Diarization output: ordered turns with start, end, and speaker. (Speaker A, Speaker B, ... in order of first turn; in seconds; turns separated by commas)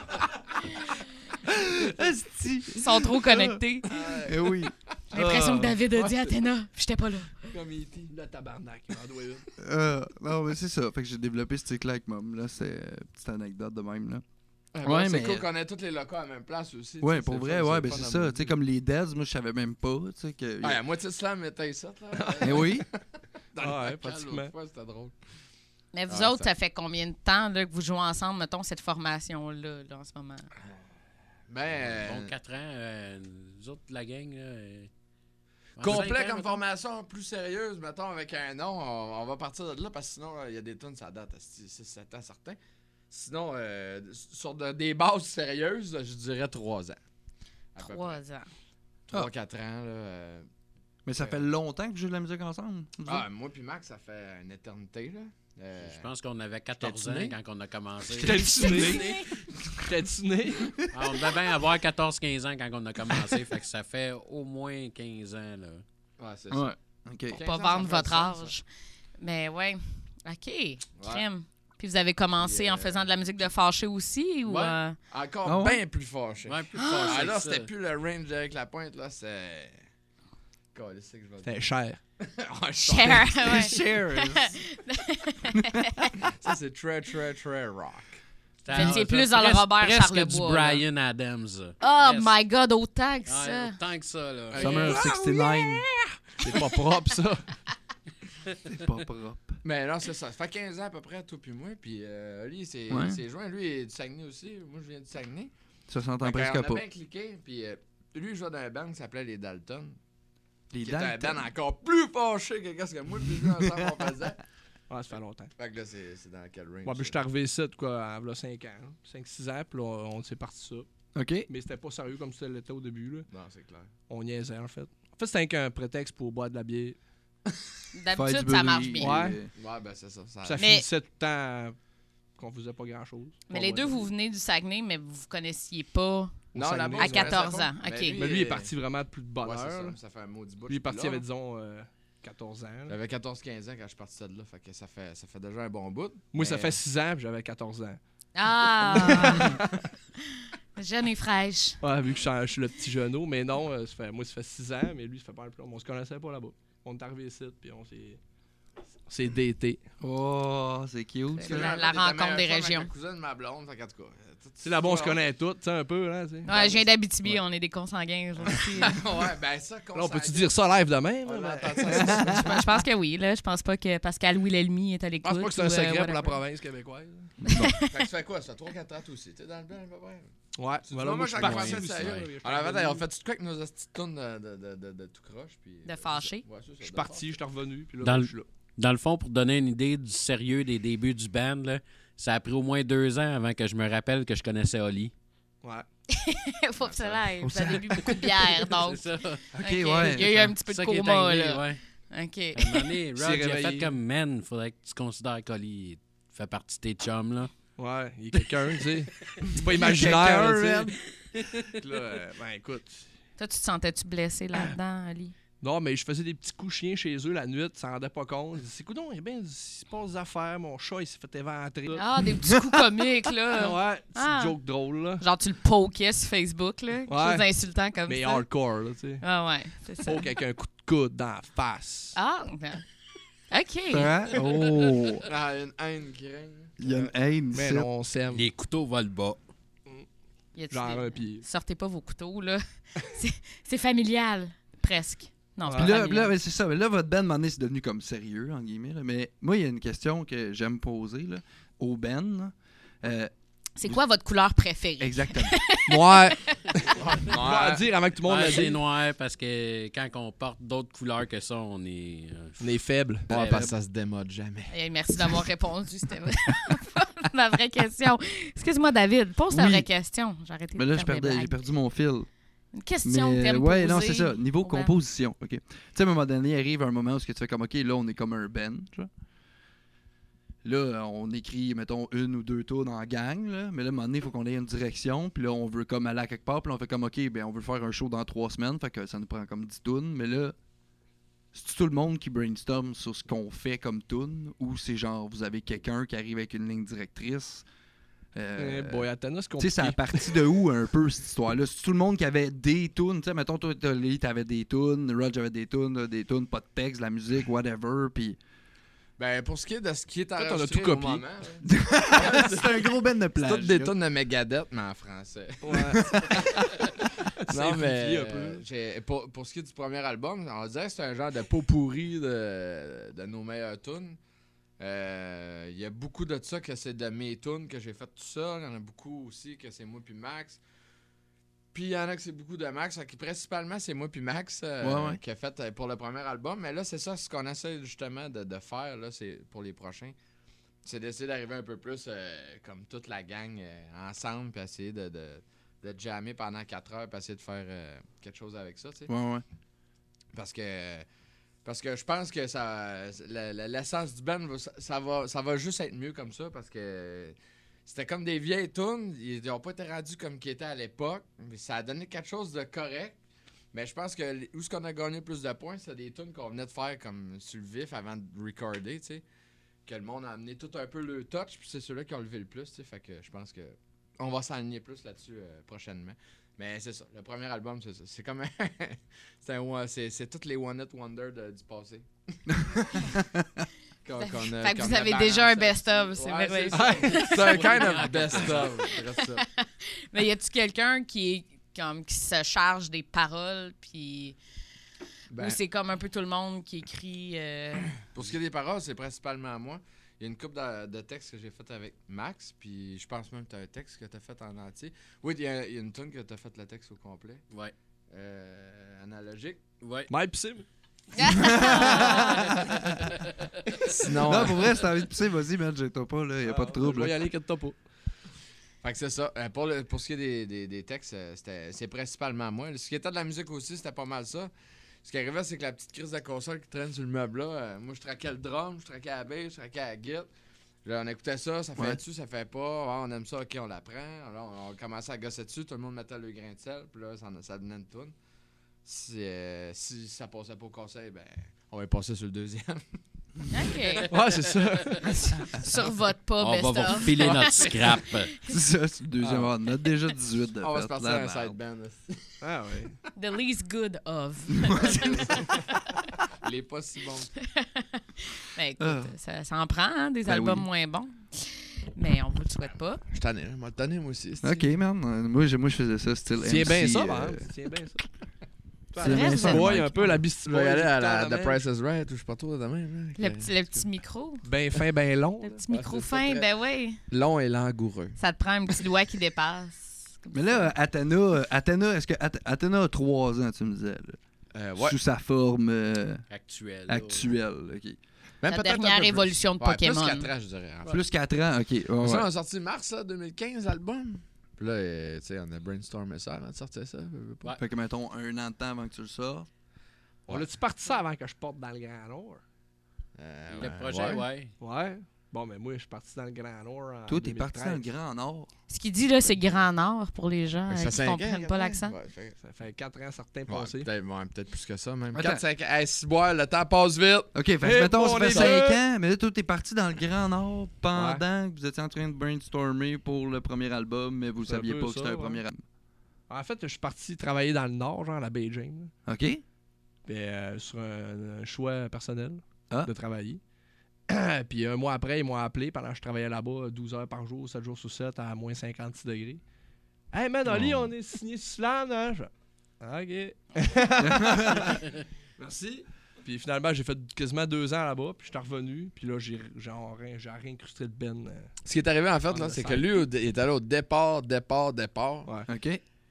Speaker A: 1.4-5.8, Speaker B: 2.8-3.9, Speaker C: 3.9-4.5, Speaker B: 5.1-7.5, Speaker C: 5.9-6.4, Speaker C: 7.5-8.1, Speaker D: 8.1-9.4, Speaker A: 9.6-14.2, Speaker C: 14.7-18.5, Speaker A: 14.8-15.4, Speaker A: 17.0-20.8, Speaker C: 20.6-23.0, Speaker D: 22.1-22.6, Speaker A: 22.4-22.9, Speaker C: 23.5-25.1, Speaker D: 23.6-24.5, Speaker B: 25.9-30.5, Speaker C: 26.1-26.5, Speaker C: 31.5-32.3, Speaker E: 31.9-34.9, Speaker E: 35.8-36.6, Speaker C: 35.8-42.6, Speaker C: 43.1-47.0, Speaker C: 47.7-48.2, Speaker B: 47.8-48.5, Speaker C: 49.1-50.5, Speaker A: 51.0-53.2, Speaker C: 51.1-51.4, Speaker C: 53.0-56.1, Speaker E: 55.8-59.0, Speaker C: 56.8-57.4, Speaker D: 58.2-59.2, Speaker A: 58.2-59.8, Speaker B: 58.6-59.2, Speaker D: 59.8-60.8, Speaker E: 60.9-65.8, Speaker C: 66.2-66.7, Speaker A: 66.5-67.4, Speaker C: 67.3-68.5, Speaker B: 67.3-68.6, Speaker B: 69.2-75.0, Speaker C: 71.0-71.2, Speaker C: 72.4-73.1, Speaker E: 74.5-74.8, Speaker C: 75.1-79.8, Speaker A: 75.4-75.8, Speaker E: 76.5-77.7, Speaker B: 76.8-77.2, Speaker C: 80.7-81.7, Speaker D: 81.4-82.0, Speaker C: 82.2-83.6, Speaker B: 82.8-86.1, Speaker A: 83.4-84.5, Speaker C: 86.2-88.2, Speaker E: 88.6-92.3, Speaker A: 88.7-89.0, Speaker B: 88.7-90.8, Speaker B: 91.8-93.8, Speaker E: 93.2-94.8, Speaker D: 94.5-97.5, Speaker A: 94.5-95.9, Speaker A: 98.7-99.6, Speaker C: 99.6-105.5, Speaker A: 102.9-103.2, Speaker A: 105.9-106.8, Speaker C: 106.2-110.0, Speaker A: 110.7-111.5, Speaker C: 110.8-114.4, Speaker D: 114.9-115.5, Speaker C: 115.6-117.2, Speaker D: 116.8-120.9, Speaker A: 121.1-121.5, Speaker D: 121.5-123.3, Speaker C: 123.3-123.9, Speaker D: 124.1-127.0, Speaker B: 127.9-129.2, Speaker A: 128.1-129.5, Speaker D: 129.0-129.5, Speaker C: 129.5-130.7, Speaker D: 130.4-131.8, Speaker B: 130.6-130.8, Speaker D: 132.3-134.0, Speaker B: 133.5-138.2, Speaker D: 136.5-137.4, Speaker C: 136.5-138.7, Speaker D: 138.2-140.0, Speaker C: 139.4-141.2, Speaker D: 140.7-142.9, Speaker C: 142.9-146.8, Speaker D: 146.3-148.0, Speaker B: 148.3-149.6, Speaker D: 148.9-149.6, Speaker B: 150.8-151.8, Speaker D: 151.8-158.2, Speaker D: 159.1-159.8, Speaker A: 160.0-161.7, Speaker B: 161.3-162.9, Speaker C: 161.5-165.2, Speaker D: 164.6-166.5, Speaker B: 166.4-169.0, Speaker C: 166.5-166.8, Speaker C: 168.7-172.7, Speaker D: 169.9-172.4, Speaker A: 172.1-172.4, Speaker B: 172.2-176.4, Speaker D: 175.2-177.4, Speaker A: 177.4-177.7, Speaker B: 177.5-177.9, Speaker C: 177.8-180.3, Speaker D: 180.5-183.0, Speaker C: 180.8-187.3, Speaker E: 181.4-182.2, Speaker B: 185.8-186.4, Speaker D: 186.8-188.5, Speaker E: 188.0-195.1, Speaker B: 196.1-199.1, Speaker C: 196.8-197.2, Speaker A: 197.4-198.2, Speaker E: 198.8-199.4, Speaker A: 199.5-200.5, Speaker B: 199.6-202.9, Speaker E: 200.7-201.8, Speaker E: 202.5-207.5, Speaker D: 203.2-203.9, Speaker D: 207.8-210.9, Speaker A: 209.7-210.9, Speaker D: 211.7-213.1, Speaker B: 213.4-215.3, Speaker D: 215.6-222.0, Speaker B: 221.9-224.6, Speaker D: 223.5-225.2, Speaker B: 225.2-228.5, Speaker D: 227.1-227.4, Speaker D: 228.0-229.2, Speaker B: 229.2-230.3, Speaker D: 230.0-232.2, Speaker B: 232.1-232.8, Speaker B: 233.5-234.1, Speaker A: 233.9-235.3, Speaker C: 235.2-236.8, Speaker A: 236.8-237.9, Speaker D: 236.9-238.4, Speaker E: 238.3-239.4, Speaker B: 240.5-246.3, Speaker D: 240.7-241.4, Speaker D: 245.6-245.9, Speaker A: 245.8-253.3, Speaker B: 253.8-256.6, Speaker A: 255.0-255.6, Speaker D: 255.9-258.8, Speaker C: 256.9-257.9, Speaker E: 258.2-262.6, Speaker D: 262.6-263.3, Speaker E: 263.3-263.7, Speaker C: 263.3-265.4, Speaker B: 264.7-271.6, Speaker A: 269.5-269.9, Speaker A: 270.8-272.3, Speaker B: 272.7-274.9, Speaker A: 273.0-279.1, Speaker A: 280.6-290.5, Speaker A: 291.5-297.6, Speaker A: 298.3-299.1, Speaker D: 298.6-300.4, Speaker A: 299.6-308.4, Speaker C: 309.2-316.9, Speaker D: 310.3-311.2, Speaker A: 311.6-314.0, Speaker D: 315.6-316.6, Speaker A: 315.9-316.4, Speaker D: 317.4-318.6, Speaker C: 317.5-324.2, Speaker C: 324.8-330.6, Speaker C: 331.7-340.1, Speaker A: 334.8-335.2, Speaker C: 340.8-349.1, Speaker A: 349.1-349.4, Speaker C: 350.3-351.1, Speaker C: 351.6-363.1, Speaker C: 363.7-369.2, Speaker C: 369.9-382.1, Speaker A: 382.5-383.4, Speaker C: 382.8-383.1, Speaker C: 384.0-389.4, Speaker B: 384.2-387.7, Speaker D: 386.7-387.8, Speaker E: 387.4-388.9, Speaker B: 389.2-394.4, Speaker C: 395.3-395.6, Speaker B: 395.4-397.9, Speaker C: 398.1-407.4, Speaker C: 408.1-409.6, Speaker E: 409.8-410.1, Speaker D: 410.1-410.6, Speaker B: 411.1-412.5, Speaker A: 411.4-412.8, Speaker C: 413.9-414.8, Speaker A: 414.2-417.2, Speaker D: 416.4-417.8, Speaker C: 418.8-424.5, Speaker C: 425.0-430.3, Speaker C: 430.8-438.1, Speaker A: 431.8-432.0, Speaker C: 438.8-442.8, Speaker B: 443.5-444.1, Speaker D: 444.1-445.3, Speaker B: 445.5-448.1, Speaker E: 446.4-448.3, Speaker C: 447.1-447.9, Speaker A: 448.5-451.6, Speaker C: 449.2-449.5, Speaker C: 450.6-452.4, Speaker D: 452.4-452.9, Speaker B: 453.1-455.6, Speaker A: 454.7-455.0, Speaker C: 454.8-455.6, Speaker C: 456.4-457.3, Speaker B: 457.5-463.0, Speaker A: 458.8-459.1, Speaker A: 460.2-460.7, Speaker C: 463.1-464.7, Speaker A: 464.4-467.5, Speaker D: 466.4-468.0, Speaker D: 468.9-471.6, Speaker A: 468.9-470.1, Speaker B: 469.0-470.1, Speaker C: 470.4-473.8, Speaker B: 473.1-474.4, Speaker D: 474.4-475.6, Speaker B: 475.4-477.0, Speaker C: 475.7-476.5, Speaker C: 477.1-478.2, Speaker B: 478.2-480.7, Speaker A: 480.3-484.2, Speaker C: 484.5-485.0, Speaker A: 484.8-486.2, Speaker E: 486.3-487.3, Speaker A: 486.9-488.0, Speaker C: 488.4-490.9, Speaker B: 488.5-490.3, Speaker A: 490.9-492.3, Speaker C: 492.0-497.5, Speaker A: 497.6-499.5, Speaker D: 500.3-502.4, Speaker C: 503.2-504.2, Speaker E: 503.5-504.5, Speaker D: 504.6-507.9, Speaker A: 507.1-508.5, Speaker B: 508.7-511.9, Speaker C: 510.7-512.4, Speaker D: 512.4-513.9, Speaker C: 513.5-517.4, Speaker A: 515.1-515.4, Speaker A: 517.3-525.6, Speaker D: 517.6-518.8, Speaker C: 518.3-518.6, Speaker D: 520.9-521.2, Speaker D: 524.4-525.4, Speaker D: 526.3-528.9, Speaker A: 529.0-529.4, Speaker D: 530.0-533.4, Speaker D: 534.1-539.4, Speaker D: 540.1-544.8, Speaker C: 540.5-540.9, Speaker A: 544.0-544.8, Speaker D: 546.2-551.5, Speaker C: 551.6-555.3, Speaker D: 552.3-553.0, Speaker A: 555.5-555.8